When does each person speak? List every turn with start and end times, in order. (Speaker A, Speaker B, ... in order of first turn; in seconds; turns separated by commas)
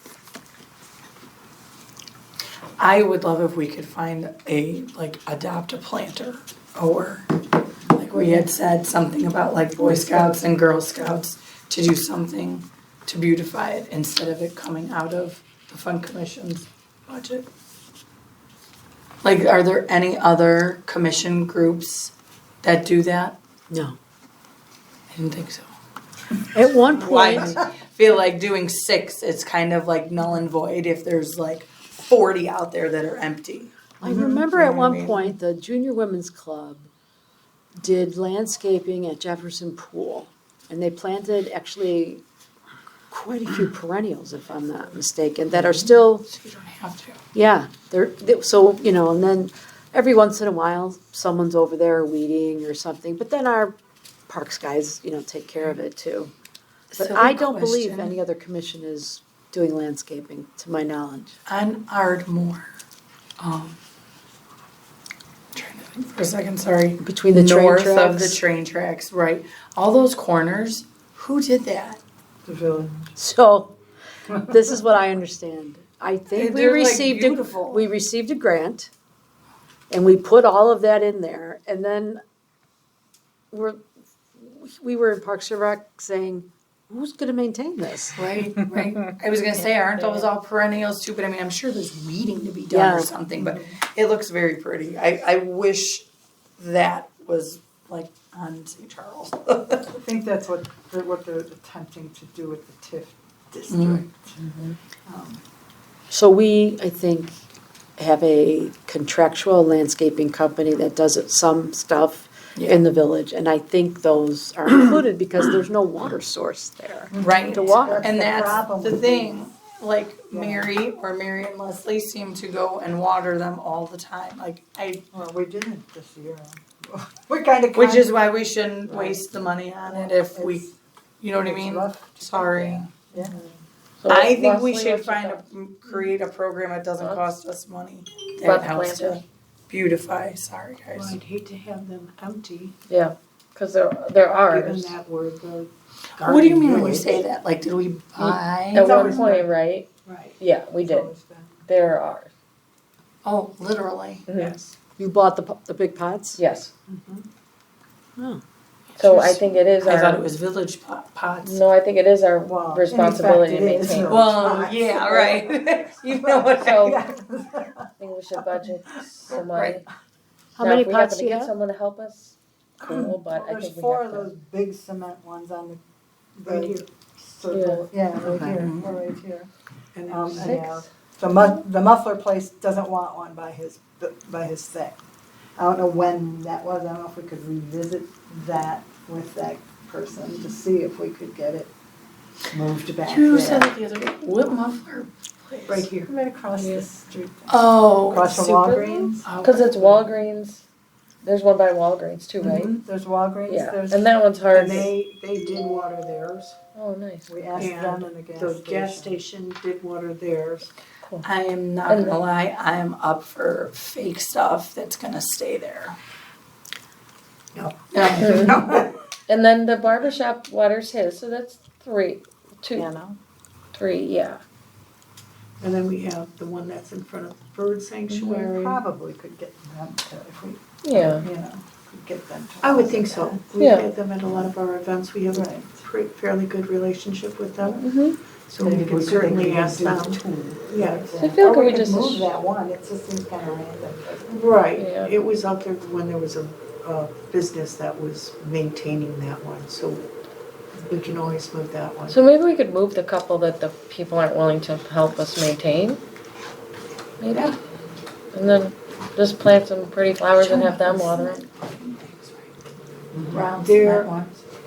Speaker A: 2.8-7.3, Speaker A: 7.9-17.4, Speaker A: 19.2-23.4, Speaker B: 23.7-24.0, Speaker A: 25.1-25.7, Speaker B: 26.5-27.6, Speaker A: 26.8-35.3, Speaker B: 34.0-36.9, Speaker B: 37.8-42.2, Speaker B: 43.1-46.2, Speaker A: 45.5-47.2, Speaker B: 47.3-53.8, Speaker B: 54.3-56.3, Speaker A: 56.9-58.2, Speaker B: 57.0-61.4, Speaker A: 61.5-62.7, Speaker A: 63.4-63.8, Speaker A: 65.5-72.0, Speaker B: 67.0-68.4, Speaker C: 72.4-73.1, Speaker B: 73.2-73.7, Speaker C: 74.3-74.6, Speaker B: 74.4-78.9, Speaker A: 76.3-77.9, Speaker B: 79.9-82.2, Speaker B: 83.5-83.8, Speaker B: 84.3-88.2, Speaker A: 88.1-96.0, Speaker B: 92.7-93.1, Speaker C: 93.3-93.7, Speaker A: 96.6-99.9, Speaker C: 100.0-104.4, Speaker A: 103.7-104.0, Speaker D: 104.4-104.8, Speaker C: 105.0-105.4, Speaker B: 106.1-107.4, Speaker B: 108.0-118.6, Speaker A: 112.5-112.8, Speaker C: 117.1-119.5, Speaker A: 117.1-125.0, Speaker C: 120.3-120.7, Speaker C: 125.1-128.1, Speaker A: 127.7-130.6, Speaker C: 128.9-129.2, Speaker C: 129.8-130.7, Speaker A: 131.2-133.0, Speaker C: 131.3-133.4, Speaker D: 134.0-135.4, Speaker A: 134.1-141.2, Speaker D: 137.0-137.3, Speaker D: 138.4-139.2, Speaker E: 140.9-142.7, Speaker D: 142.9-144.9, Speaker E: 144.2-147.2, Speaker A: 146.2-149.2, Speaker D: 148.7-149.9, Speaker C: 148.7-149.5, Speaker E: 150.1-150.4, Speaker D: 150.4-151.1, Speaker C: 150.8-151.7, Speaker D: 151.7-152.3, Speaker A: 153.2-154.2, Speaker D: 154.3-154.6, Speaker B: 155.0-156.4, Speaker D: 156.4-156.7, Speaker C: 156.9-157.2, Speaker B: 158.2-158.4, Speaker D: 159.0-160.2, Speaker A: 159.0-161.6, Speaker D: 161.4-164.2, Speaker C: 162.4-168.7, Speaker A: 164.0-167.0, Speaker D: 166.5-167.0, Speaker D: 168.0-169.8, Speaker A: 169.1-169.8, Speaker B: 170.6-171.5, Speaker D: 170.6-174.3, Speaker C: 172.9-175.8, Speaker C: 176.3-179.5, Speaker E: 176.4-176.8, Speaker D: 177.5-177.9, Speaker A: 178.2-179.0, Speaker E: 179.9-180.5, Speaker C: 180.1-185.0, Speaker D: 180.3-180.9, Speaker C: 185.6-191.7, Speaker C: 192.5-193.7, Speaker A: 193.0-195.9, Speaker C: 195.7-199.3, Speaker E: 195.8-196.1, Speaker D: 196.6-196.9, Speaker A: 197.5-198.5, Speaker D: 198.3-200.6, Speaker A: 199.2-200.1, Speaker D: 201.2-202.7, Speaker C: 202.5-205.1, Speaker D: 203.5-204.9, Speaker E: 204.5-206.6, Speaker D: 206.7-207.5, Speaker C: 207.3-209.2, Speaker E: 207.6-210.7, Speaker A: 211.2-215.9, Speaker D: 211.9-212.2, Speaker E: 217.5-218.9, Speaker A: 217.9-218.7, Speaker D: 218.2-218.6, Speaker D: 219.3-222.9, Speaker E: 222.7-223.2, Speaker D: 223.7-224.4, Speaker E: 225.6-228.1, Speaker D: 228.1-228.8, Speaker A: 228.1-228.6, Speaker C: 228.4-233.4, Speaker D: 230.8-231.3, Speaker E: 232.6-237.8, Speaker A: 232.7-233.4, Speaker D: 233.5-233.9, Speaker C: 235.3-235.8, Speaker D: 237.8-238.2, Speaker E: 238.5-241.1, Speaker C: 238.6-244.6, Speaker D: 241.1-242.3, Speaker E: 244.3-250.1, Speaker D: 244.7-245.2, Speaker E: 250.8-252.2, Speaker D: 252.1-256.0, Speaker D: 257.2-257.6, Speaker D: 258.3-261.4, Speaker A: 260.4-262.5, Speaker C: 263.1-263.5, Speaker A: 263.3-264.4, Speaker E: 263.6-264.1